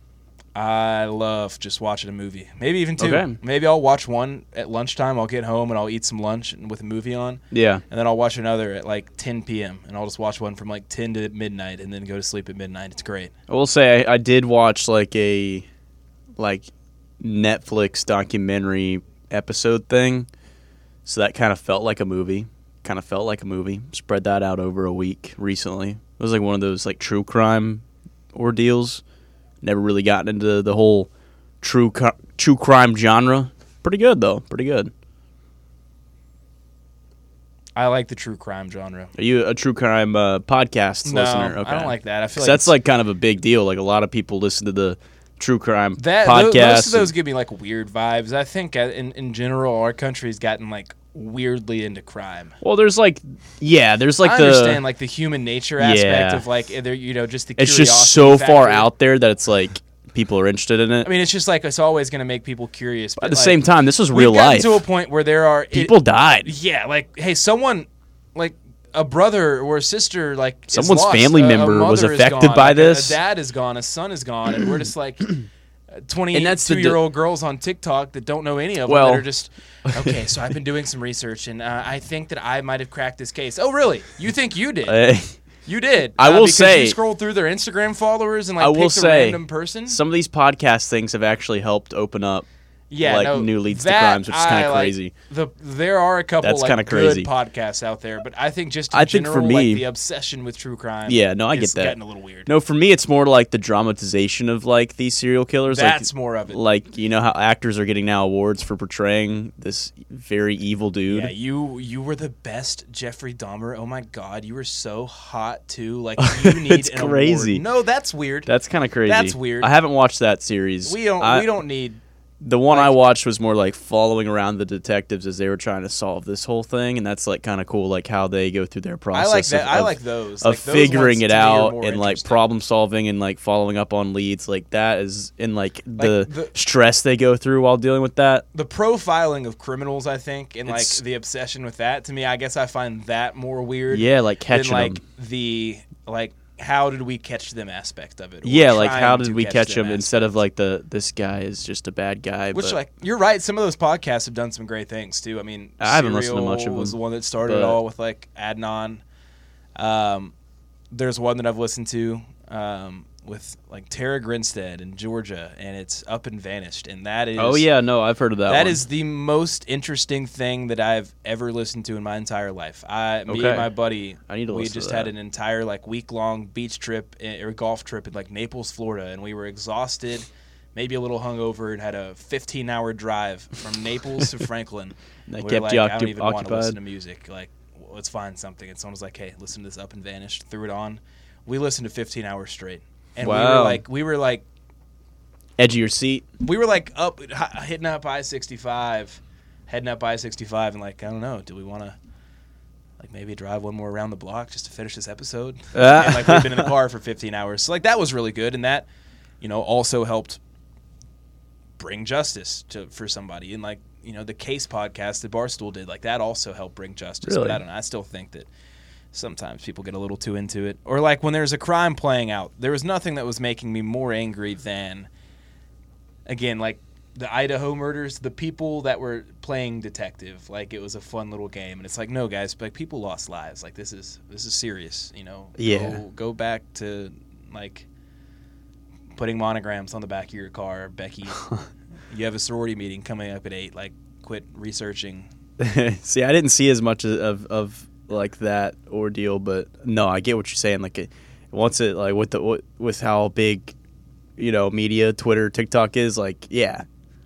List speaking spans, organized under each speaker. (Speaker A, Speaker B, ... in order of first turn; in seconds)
Speaker A: 0.5-13.3, 37.8-39.1, 41.0-42.7, 46.0-52.6, 54.2-58.9, 61.0-63.6, 64.1-75.3, 76.0-85.0, 85.7-90.0, 92.9-102.5, 105.7-106.6, 111.1-118.5, 119.0-119.7, 120.8-122.0, 122.7-123.1, 129.1-132.4, 136.0-136.5, 138.5-150.4, 152.5-159.0, 159.8-160.3, 160.9-167.7, 168.5-194.4, 196.4-201.9, 203.0-208.8, 209.4-210.4, 211.8-218.5, 219.1-225.1, 226.3-237.9, 239.2-241.4, 242.1-245.3
Speaker B: 3.0-3.4, 7.5-7.8, 13.5-15.6, 16.4-16.7, 17.2-20.3, 21.0-27.8, 28.3-29.0, 29.6-31.1, 31.6-34.9, 39.1-47.1, 52.6-54.8, 55.8-56.4, 57.6-61.1, 63.2-64.8, 65.7-66.5, 70.7-73.2, 76.3-77.0, 78.9-79.2, 84.8-85.3, 86.2-87.0, 88.6-92.5, 93.0-95.1, 96.4-97.3, 98.9-99.8, 101.1-111.3, 116.2-117.6, 118.5-121.5, 122.4-138.4, 140.7-141.0, 143.9-145.0, 148.4-152.8, 155.8-157.8, 167.4-168.8, 173.3-173.7, 174.3-175.1, 185.3-186.8, 193.2-193.8, 195.6-196.2, 205.7-206.7, 217.2-217.6, 235.6-236.0, 245.6-253.7, 254.4-256.8